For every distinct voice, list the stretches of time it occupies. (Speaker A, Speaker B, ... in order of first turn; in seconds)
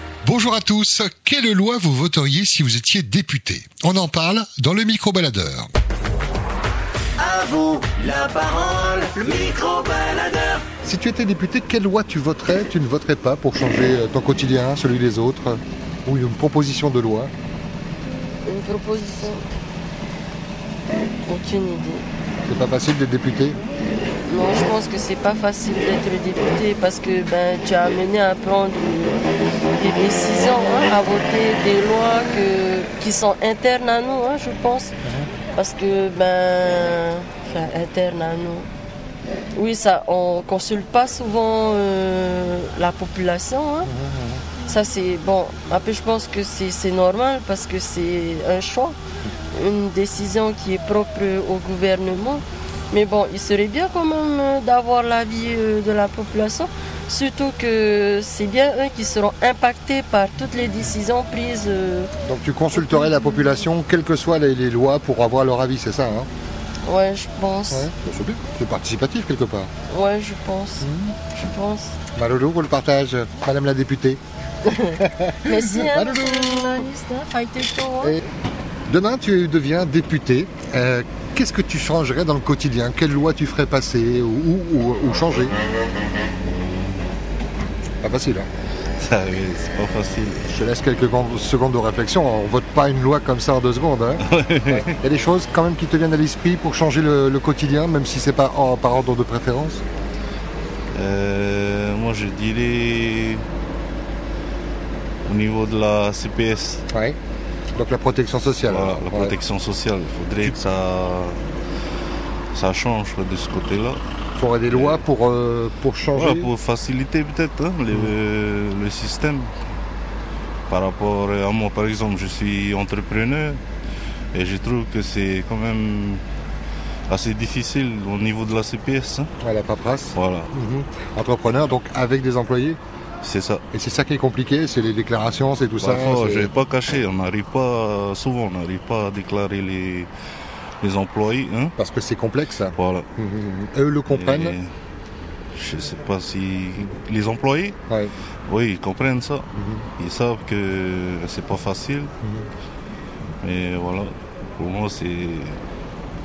Speaker A: 0.2-5.7, 10.8-17.3, 22.5-23.6, 35.0-35.3, 43.9-44.4, 62.2-66.3, 67.7-69.7, 70.8-71.2, 72.2-74.2, 75.0-76.9, 78.9-85.6, 88.0-88.5, 90.5-99.8, 106.9-107.2, 107.8-109.3, 114.4-116.5, 129.4-132.8, 133.7-136.5, 141.8-144.6, 149.6-149.9, 152.2-152.5
Speaker B: 7.2-10.7
Speaker C: 18.4-19.5, 21.3-22.1, 24.3-29.2, 29.8-34.9, 35.5-38.7, 39.5-43.9, 44.6-49.0, 49.5-62.1, 66.9-67.9, 69.9-72.0, 74.7-78.2
Speaker D: 86.3-87.1, 89.0-90.5, 94.2-94.9, 100.9-103.4, 105.2-106.8, 108.6-111.4, 112.5-114.0, 114.7-115.0, 116.1-119.5, 120.7-123.6, 124.3-126.2, 127.1-129.3, 130.2-130.5, 133.2-133.6, 135.8-140.1, 140.8-141.8, 142.8-143.1, 144.1-144.7, 145.5-147.8, 148.5-152.1, 153.4-155.6